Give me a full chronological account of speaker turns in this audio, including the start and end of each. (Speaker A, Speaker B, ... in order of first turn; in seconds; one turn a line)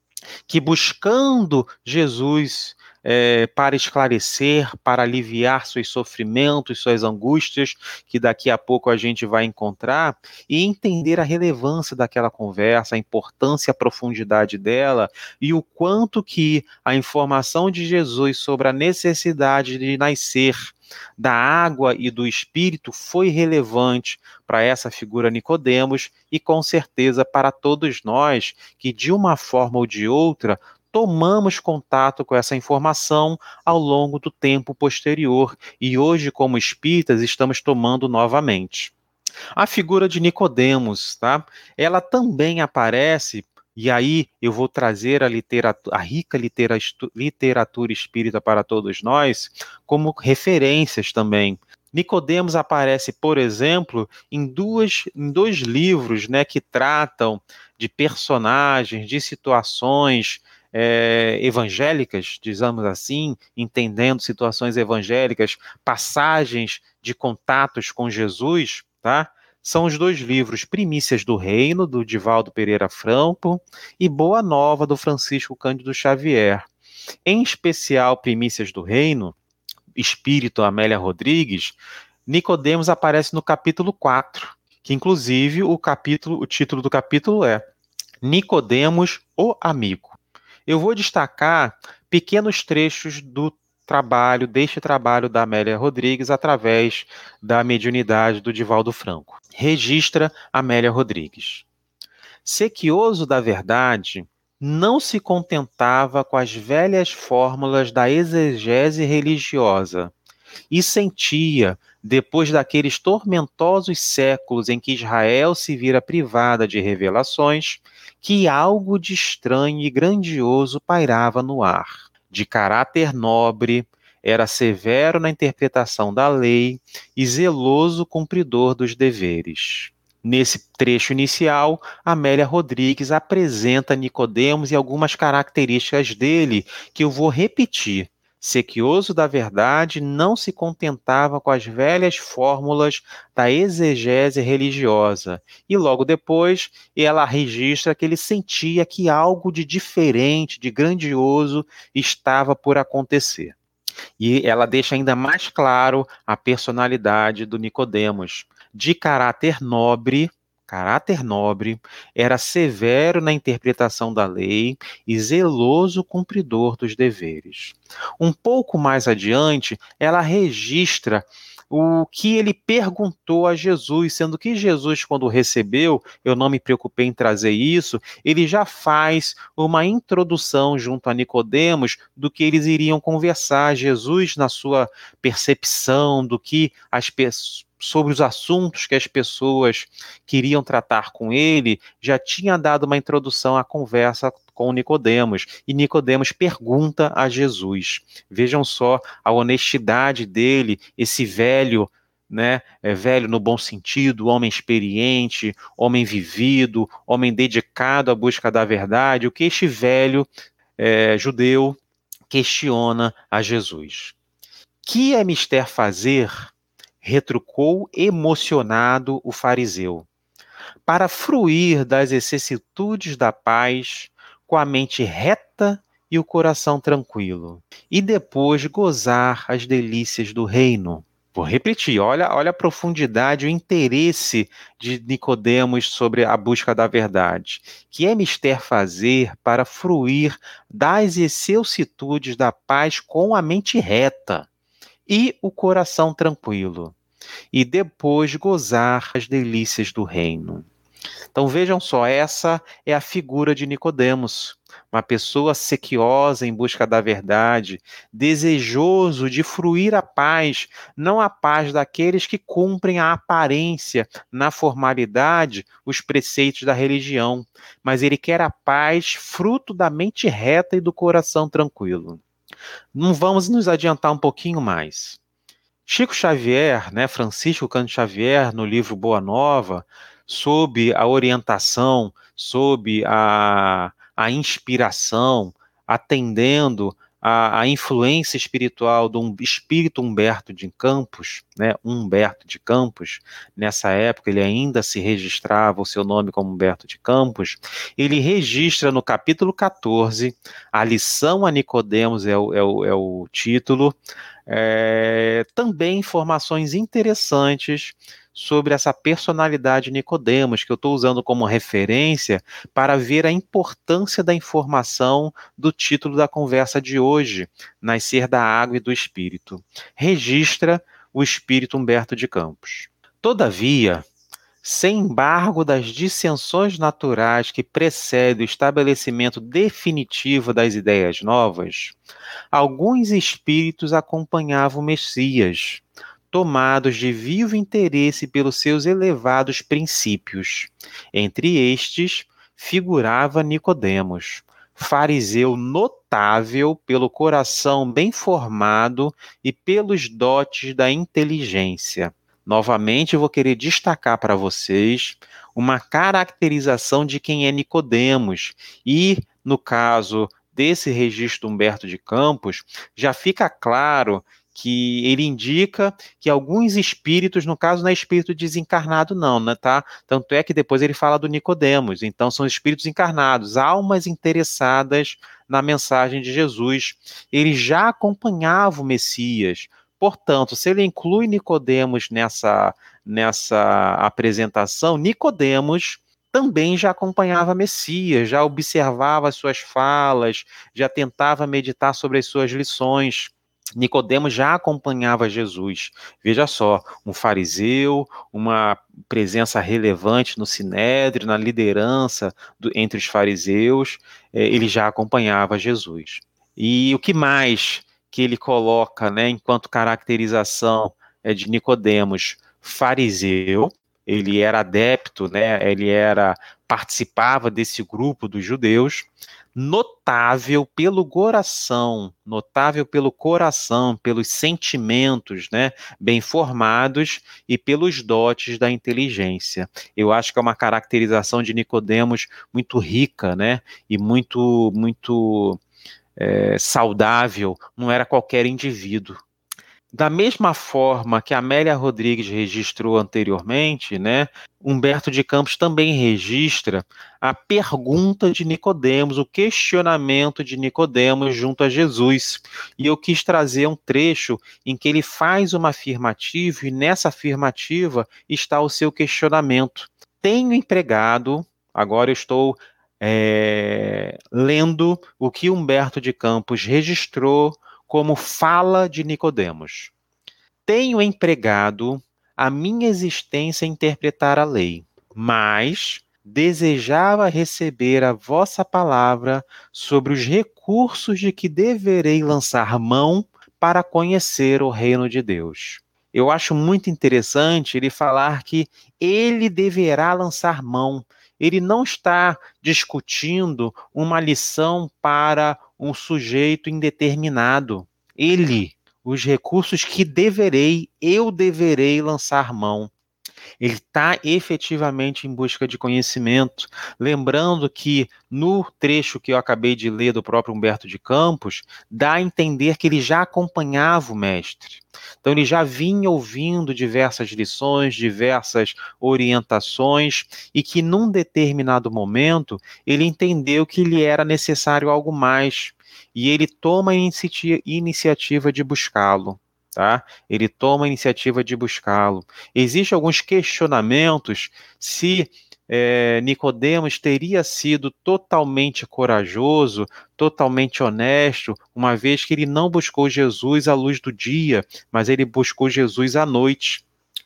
Speaker A: 0.5-38.9
Speaker A: 39.6-76.7
Speaker A: 77.2-79.4
Speaker A: 80.0-87.6
Speaker A: 88.2-101.7
Speaker A: 102.5-110.1
Speaker A: 110.7-153.6
Speaker A: 154.2-211.8
Speaker A: 212.3-214.2
Speaker A: 214.8-220.1
Speaker A: 220.9-244.5
Speaker A: 245.1-246.9
Speaker A: 247.5-250.7
Speaker A: 251.3-272.2
Speaker A: 272.9-275.2
Speaker A: 275.9-324.1
Speaker A: 324.6-332.0
Speaker A: 332.5-435.6
Speaker A: 436.2-439.2
Speaker A: 439.9-469.9
Speaker A: 470.7-502.9
Speaker A: 503.6-546.8